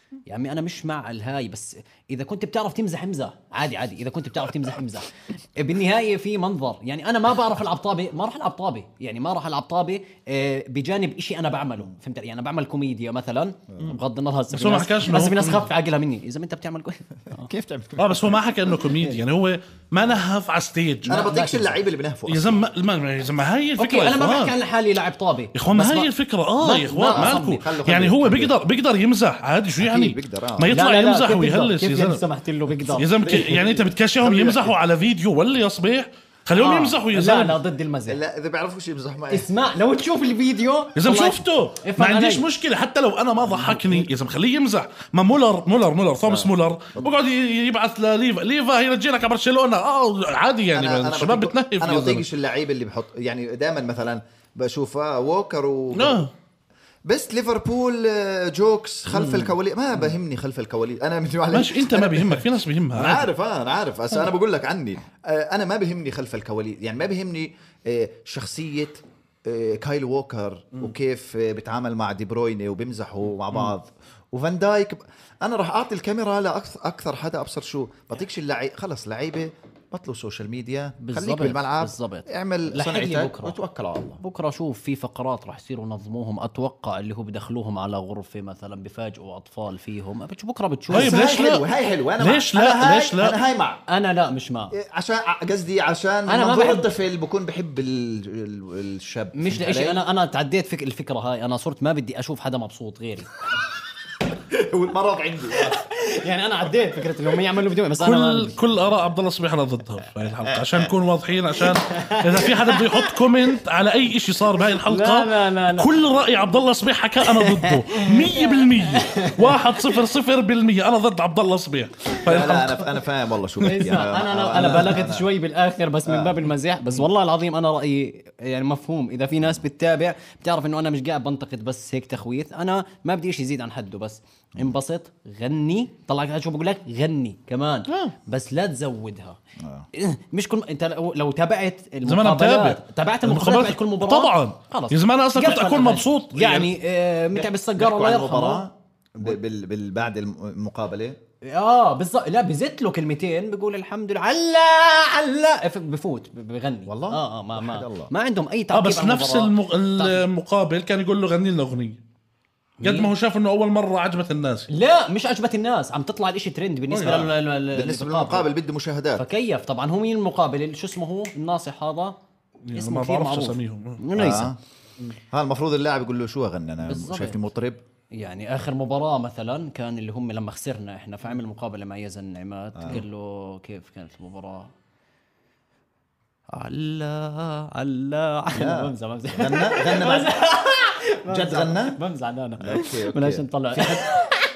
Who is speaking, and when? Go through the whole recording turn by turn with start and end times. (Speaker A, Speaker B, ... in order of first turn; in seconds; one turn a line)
Speaker A: 0.3-17.5
Speaker B: 13.7-14.0
Speaker C: 14.5-15.6
Speaker B: 17.3-18.5
Speaker C: 18.0-21.2
Speaker B: 21.1-22.6
Speaker A: 21.1-21.8
Speaker C: 22.3-24.5
Speaker A: 23.8-26.0
Speaker C: 25.5-32.2
Speaker A: 26.6-27.6
Speaker B: 27.1-28.5
Speaker B: 29.8-30.7
Speaker A: 30.7-33.1
Speaker C: 32.9-37.6
Speaker B: 33.2-34.7
Speaker A: 36.5-38.2
Speaker B: 38.1-39.5
Speaker A: 39.3-42.4
Speaker C: 41.0-52.2
Speaker A: 43.5-44.1
Speaker B: 46.2-47.1
Speaker B: 50.7-56.2
Speaker C: 55.9-56.3
Speaker B: 57.0-84.2
Speaker C: 59.1-59.5
Speaker C: 61.5-63.3
Speaker A: 81.0-83.6
Speaker A: 84.2-91.2
Speaker B: 90.9-93.8
Speaker C: 90.9-91.7
Speaker C: 92.2-93.4
Speaker A: 93.9-94.7
Speaker B: 94.7-100.0
Speaker A: 96.3-96.9
Speaker A: 99.3-103.3
Speaker B: 104.4-105.8
Speaker A: 105.5-108.6
Speaker C: 108.0-122.9
Speaker B: 110.5-110.9
Speaker A: 111.7-113.2
Speaker A: 114.8-115.9
Speaker A: 117.2-119.9
Speaker B: 122.2-125.3
Speaker A: 123.6-139.4
Speaker B: 126.0-126.4
Speaker C: 137.9-138.1
Speaker B: 139.6-139.9
Speaker A: 139.9-148.7
Speaker C: 142.0-146.7
Speaker B: 147.3-151.2
Speaker A: 151.4-160.2
Speaker B: 156.9-158.1
Speaker C: 158.7-162.0
Speaker A: 162.8-163.1
Speaker C: 162.8-164.7
Speaker A: 164.7-168.5
Speaker C: 166.9-167.3
Speaker B: 167.7-169.2
Speaker A: 169.2-172.2
Speaker C: 172.7-174.0
Speaker A: 172.7-174.5
Speaker B: 174.1-174.6
Speaker B: 175.3-177.8
Speaker A: 176.8-177.4
Speaker A: 178.1-184.7
Speaker B: 182.8-183.0
Speaker A: 186.5-194.3
Speaker B: 188.5-190.3
Speaker B: 191.3-192.0
Speaker B: 192.6-194.0